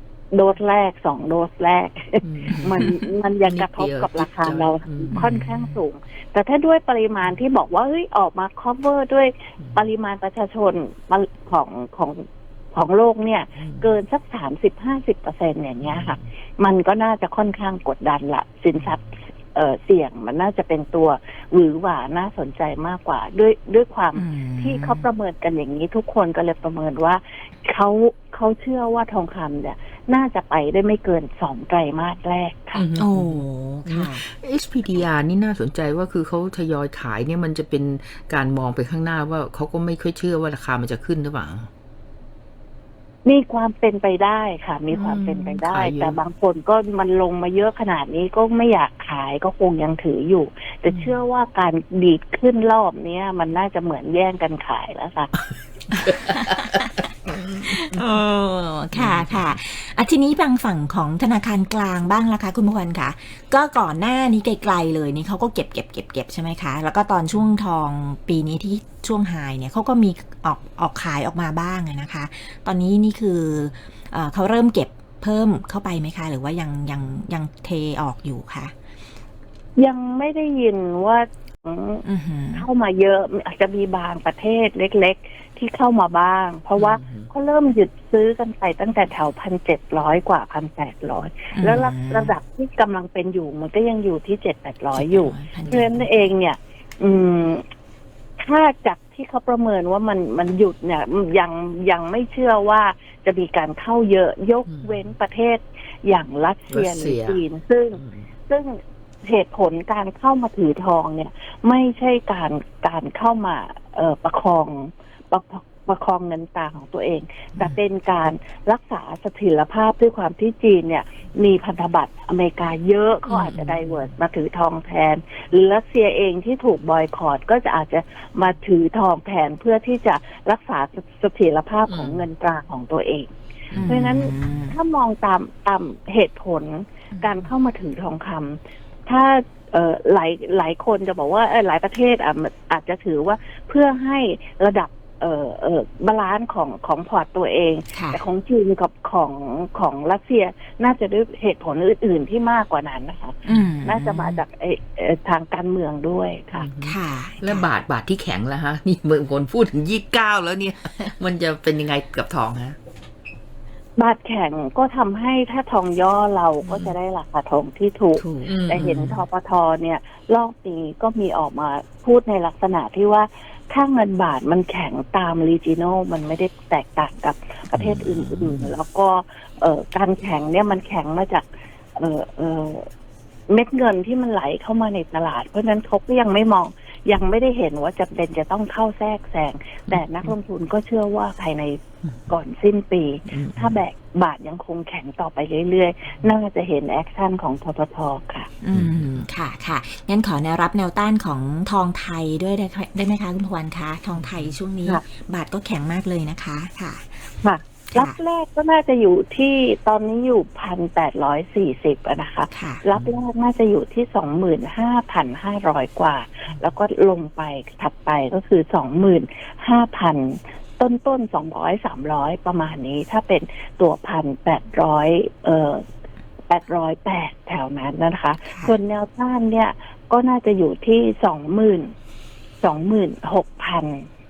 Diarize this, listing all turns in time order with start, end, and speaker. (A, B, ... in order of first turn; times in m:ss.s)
0:00.3-0:32.9 A
0:02.2-0:05.4 B
0:05.2-0:05.6 C
0:13.6-0:13.9 B
0:15.8-0:16.2 B
0:24.2-0:25.1 C
0:32.7-0:41.7 B
0:33.0-0:34.2 C
0:43.2-0:55.3 A
0:44.9-0:46.2 B
0:50.9-0:51.2 B
0:55.9-0:56.9 C
0:56.1-0:58.2 B
0:57.6-1:18.7 C
0:58.9-0:59.5 B
1:19.8-1:37.6 A
1:22.0-1:22.7 C
1:26.8-1:27.3 B
1:31.5-1:32.4 C
1:35.0-1:36.3 C
1:38.4-2:13.3 A
1:44.7-1:45.0 B
1:46.7-1:47.4 B
1:48.0-1:48.3 B
2:03.3-2:04.0 B
2:11.9-2:12.2 B
2:13.7-2:14.8 C
2:13.8-2:36.7 A
2:27.9-2:28.2 C
2:33.5-2:34.4 C
2:36.6-2:42.8 B
2:36.8-2:37.7 C
2:44.0-3:02.9 A
2:46.6-2:46.9 B
2:48.2-2:49.2 B
2:57.7-2:58.7 B
3:03.5-3:11.8 A
3:12.0-3:12.3 B
3:12.3-3:18.5 A
3:13.3-3:13.8 B
3:18.6-3:27.3 C
3:18.7-3:19.2 B
3:24.2-3:24.5 B
3:27.4-3:45.8 A
3:32.5-3:32.8 C
3:46.5-3:51.9 A
3:48.5-3:48.8 C
3:52.6-3:54.1 A